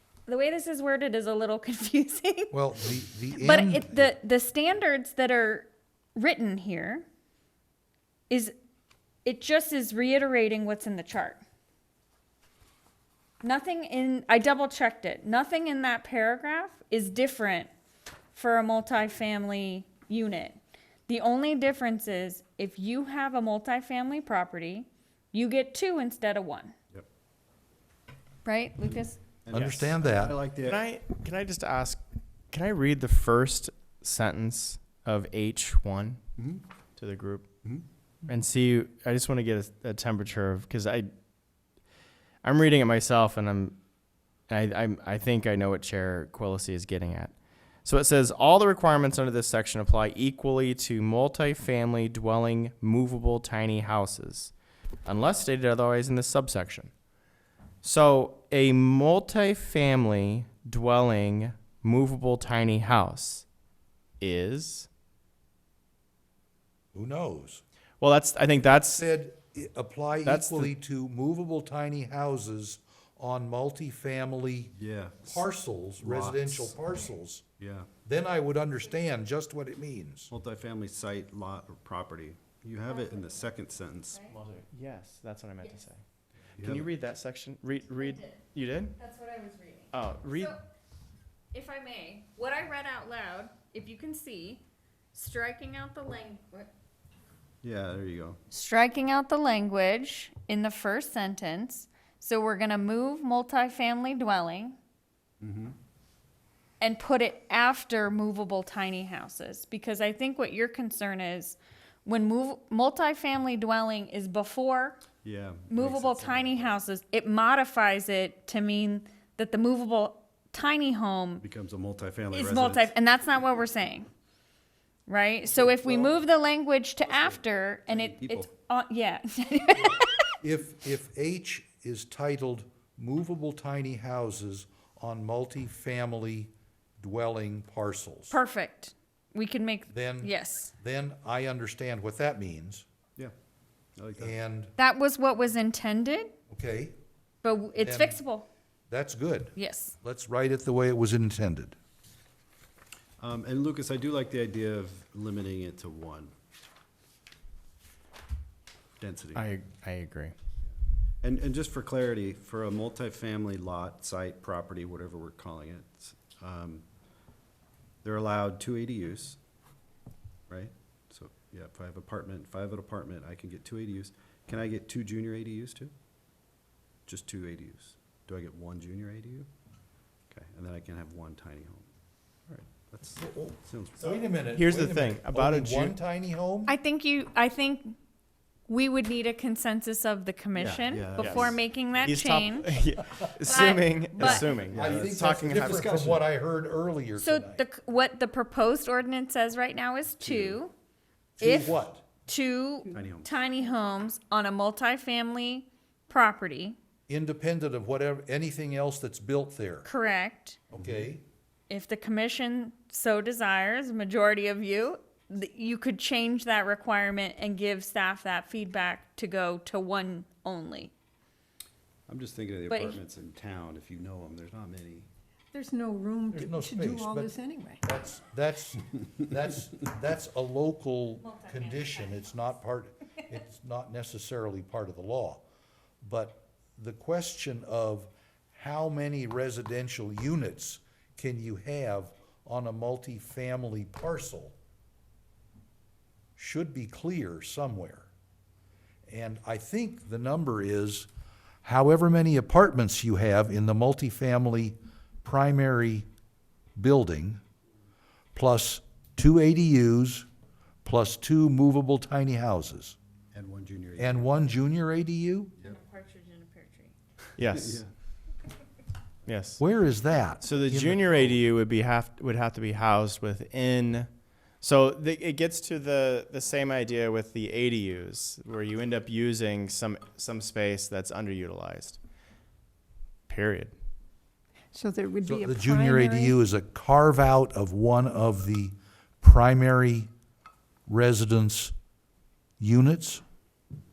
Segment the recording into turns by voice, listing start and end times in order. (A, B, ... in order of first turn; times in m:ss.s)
0:00.3-0:02.6 A
0:02.5-0:04.1 B
0:03.4-0:07.0 A
0:09.2-0:11.4 A
0:13.4-0:17.7 A
0:18.3-0:26.7 A
0:28.4-0:29.2 A
0:29.4-0:30.8 C
0:29.5-0:30.4 B
0:29.5-0:29.8 D
0:30.6-0:36.2 D
0:36.4-0:36.6 C
0:37.0-0:37.5 D
0:38.2-0:41.1 D
0:42.4-0:43.8 D
0:44.5-0:47.3 D
0:47.8-0:54.5 D
0:55.0-0:56.9 D
0:57.8-1:03.5 D
1:04.2-1:04.9 D
1:06.9-1:07.6 B
1:08.0-1:09.0 D
1:08.9-1:14.7 B
1:10.2-1:10.7 D
1:14.7-1:15.5 C
1:15.2-1:17.4 B
1:16.0-1:16.8 C
1:17.6-1:17.9 C
1:18.0-1:20.3 B
1:20.3-1:24.3 C
1:22.9-1:23.4 A
1:24.3-1:26.0 D
1:26.6-1:29.0 D
1:26.6-1:26.9 C
1:27.9-1:28.4 A
1:29.0-1:30.6 A
1:29.9-1:30.6 D
1:31.5-1:34.6 A
1:35.1-1:36.7 A
1:37.6-1:38.4 C
1:38.5-1:44.8 A
1:45.4-1:45.8 C
1:46.8-1:55.0 A
1:55.2-1:56.8 C
1:55.7-2:01.4 A
2:01.4-2:02.9 C
2:02.3-2:04.1 A
2:05.1-2:10.3 A
2:05.6-2:06.1 C
2:07.0-2:08.5 C
2:10.4-2:18.4 B
2:18.3-2:20.7 A
2:19.9-2:22.8 B
2:24.0-2:24.3 C
2:24.2-2:24.7 B
2:24.8-2:26.3 A
2:26.5-2:26.9 B
2:27.4-2:28.5 A
2:27.8-2:28.2 B
2:28.9-2:31.8 B
2:29.6-2:30.0 A
2:33.2-2:36.3 C
2:39.0-2:39.5 C
2:39.3-2:40.3 D
2:41.2-2:46.8 C
2:48.0-2:49.4 C
2:50.5-2:55.9 C
2:57.1-2:59.5 C
3:00.3-3:01.9 C
3:02.5-3:04.0 C
3:03.2-3:06.7 B
3:04.0-3:06.0 D
3:06.7-3:08.0 A
3:08.7-3:12.7 A
3:10.6-3:11.6 C
3:11.2-3:16.0 D
3:13.4-3:14.5 A
3:14.2-3:17.6 B
3:14.7-3:16.2 C
3:17.2-3:20.7 A
3:20.2-3:20.6 C
3:21.4-3:22.0 B
3:21.4-3:26.8 A
3:22.9-3:23.3 C
3:27.1-3:29.9 B
3:29.8-3:30.6 A
3:30.7-3:31.2 B
3:30.8-3:31.1 C
3:31.7-3:40.9 A
3:42.1-3:45.1 C
3:42.7-3:43.0 A
3:45.5-3:47.8 E
3:46.3-3:55.4 B
3:51.2-3:52.3 A
3:56.0-4:04.6 B
4:06.4-4:08.1 B
4:09.1-4:11.1 B
4:11.6-4:16.1 B
4:16.8-4:17.4 B
4:18.3-4:20.3 B
4:20.8-4:23.0 B
4:23.3-4:24.3 C
4:24.0-4:25.5 B
4:25.6-4:26.9 A
4:27.4-4:27.8 D
4:27.5-4:27.9 C
4:29.3-4:29.6 D
4:29.6-4:31.4 B
4:30.4-4:42.0 D
4:43.3-4:43.7 D
4:44.7-4:46.3 E
4:45.2-4:50.1 B
4:50.9-4:51.7 B
4:52.6-4:53.2 B